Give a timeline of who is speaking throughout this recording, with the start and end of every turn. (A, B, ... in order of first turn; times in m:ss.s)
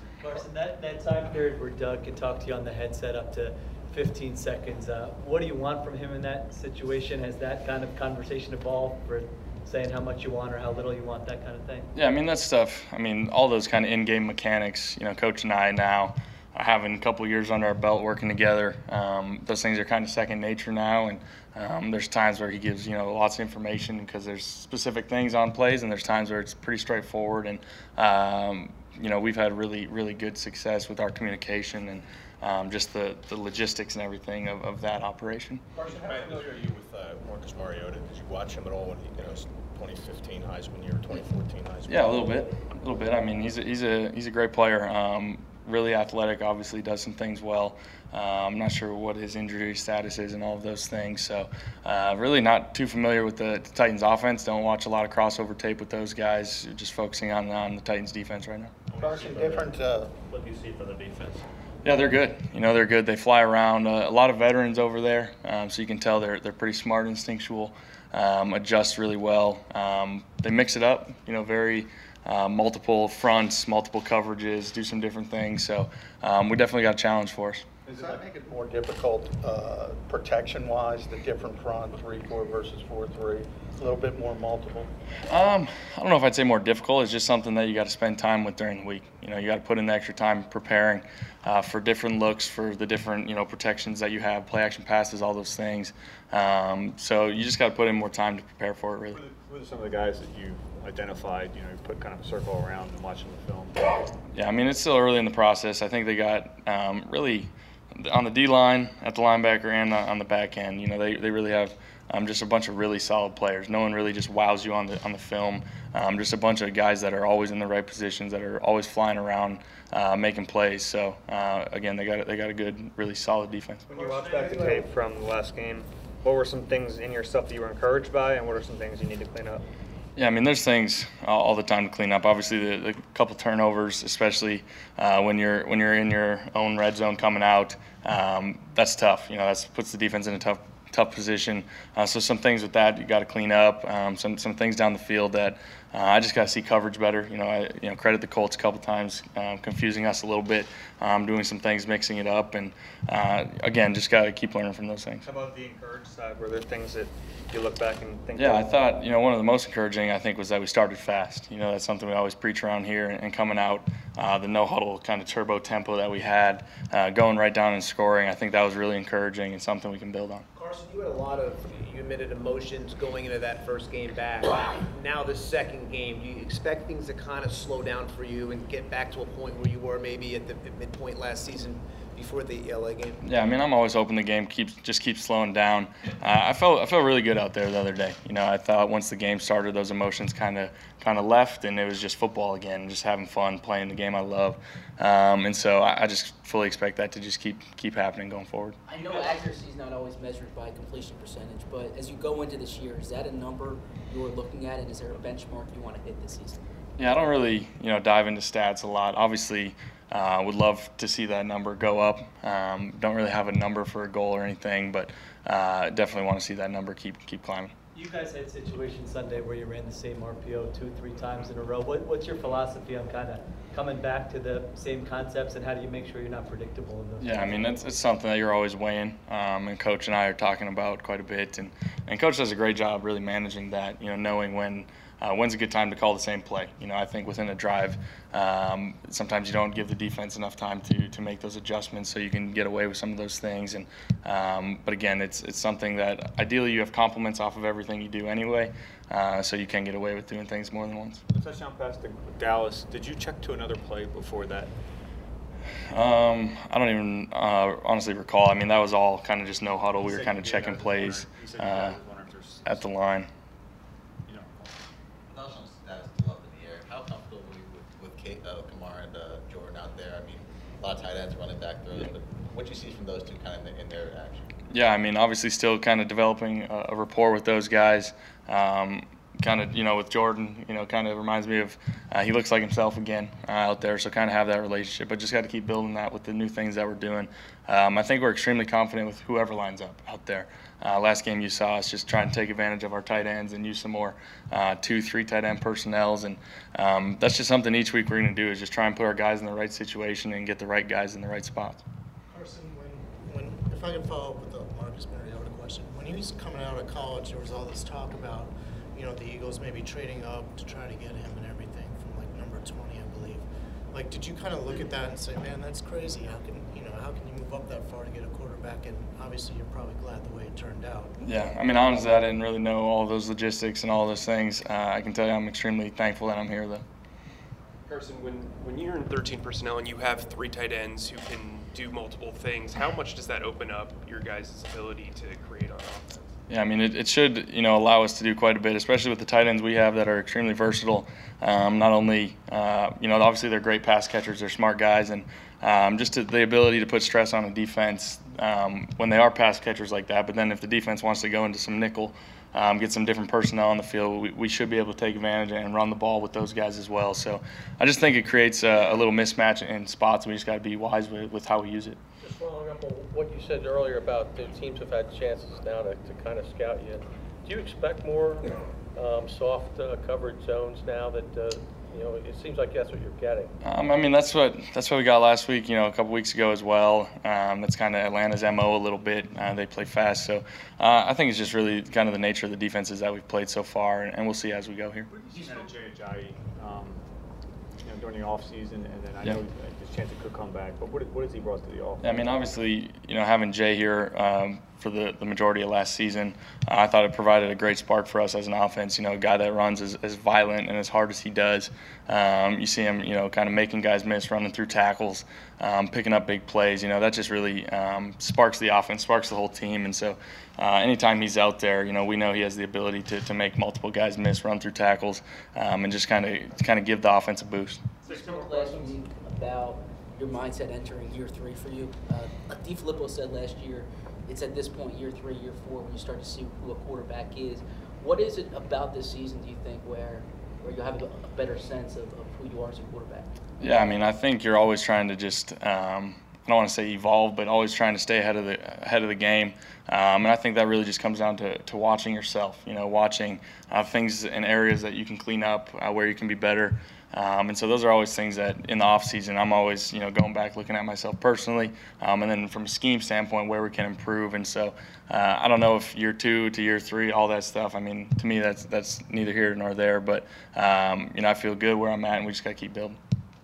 0:00.2-0:11.9 A
0:12.0-0:35.6 B
0:35.8-0:42.2 C
0:41.9-0:58.7 B
0:59.0-1:00.1 D
1:01.8-1:17.7 B
1:17.9-1:24.9 D
1:25.3-1:39.2 B
1:39.1-1:44.0 E
1:44.3-2:03.9 B
2:03.9-2:09.6 F
2:10.2-2:35.3 B
2:35.3-2:38.6 F
2:38.3-2:50.4 B
2:50.9-2:51.3 G
2:52.7-2:53.0 G
2:53.6-2:55.5 G
3:00.6-3:00.9 G
3:03.2-3:18.8 B
3:18.9-3:26.6 H
3:27.0-3:37.7 B
3:37.9-3:47.8 A
3:47.2-4:11.2 B
4:11.3-4:14.7 E
4:15.9-4:22.0 B
4:20.0-4:22.9 E
4:22.6-4:23.3 B
4:24.2-4:24.5 E
4:25.3-4:34.6 I
4:34.7-5:01.8 B
5:02.3-5:21.1 J
5:21.2-5:26.8 B
5:27.9-5:36.3 K
5:36.5-6:02.0 B
6:02.2-6:13.5 L
6:13.6-6:25.1 B
6:25.1-6:27.1 E
6:27.8-6:32.1 E
6:32.0-6:57.8 B
6:58.0-7:13.4 H
7:13.6-7:43.0 B